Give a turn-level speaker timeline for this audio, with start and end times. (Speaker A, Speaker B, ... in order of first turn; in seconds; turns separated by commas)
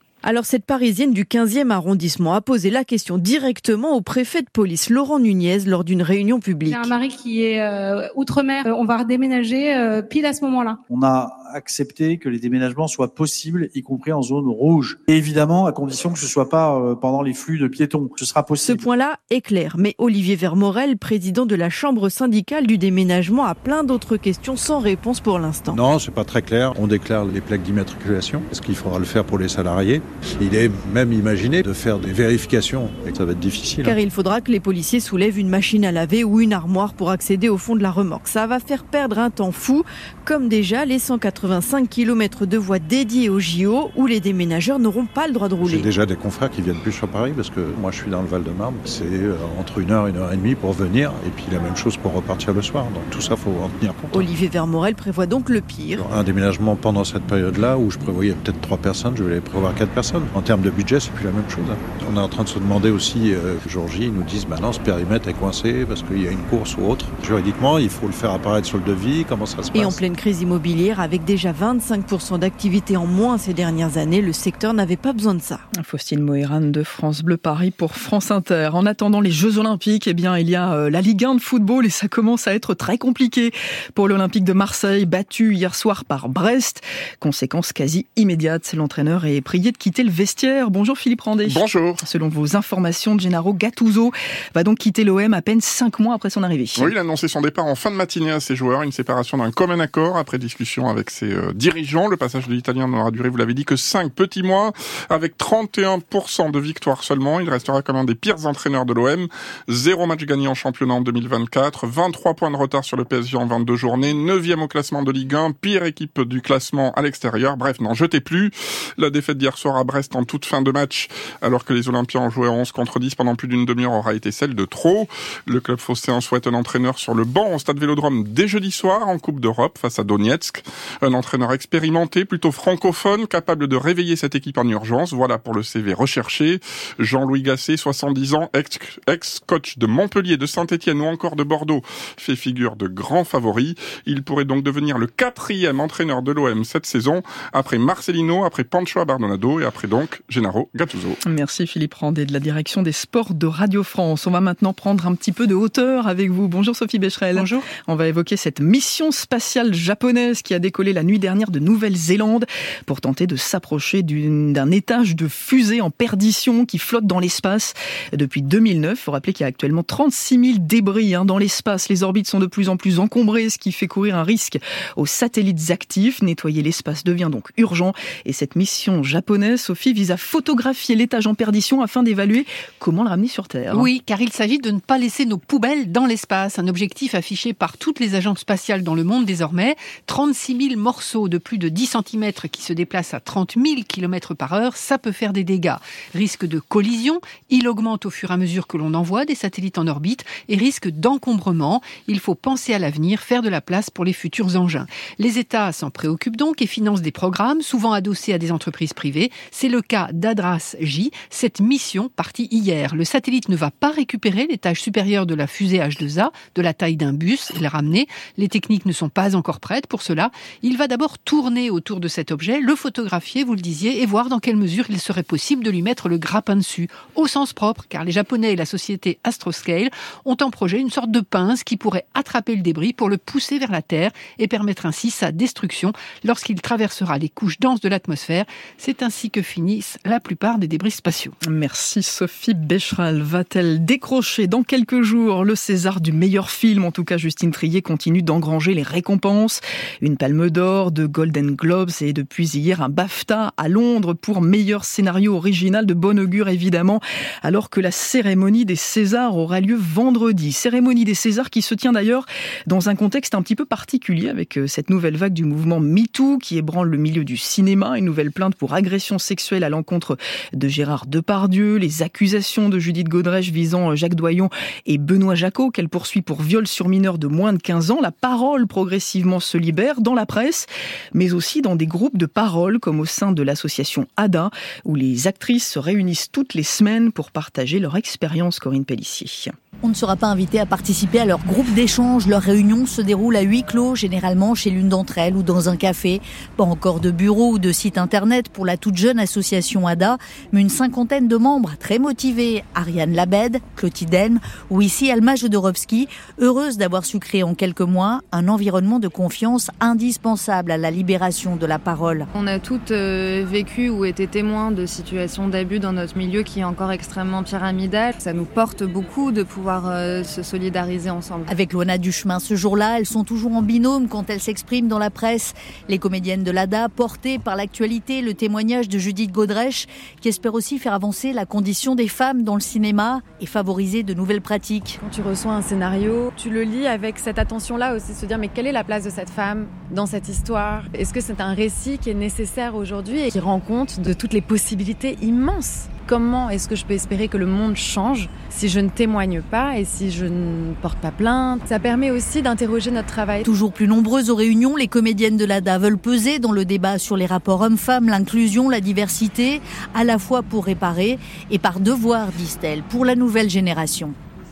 Speaker A: 0.2-7.0, Speaker B: 6.8-10.7, Speaker C: 10.9-18.8, Speaker A: 18.6-25.8, Speaker D: 25.7-34.0, Speaker A: 33.8-45.9, Speaker D: 45.6-54.3, Speaker A: 54.1-56.0, Speaker D: 56.0-70.0, Speaker A: 69.7-75.7, Speaker E: 75.7-96.9, Speaker F: 91.5-92.0, Speaker F: 96.8-151.2, Speaker E: 151.2-183.9, Speaker G: 157.3-157.7, Speaker G: 183.7-241.4, Speaker E: 241.4-289.5, Speaker H: 289.8-312.3, Speaker I: 312.4-321.5, Speaker H: 321.5-335.0, Speaker I: 335.1-351.1, Speaker I: 351.8-353.4, Speaker H: 353.4-364.1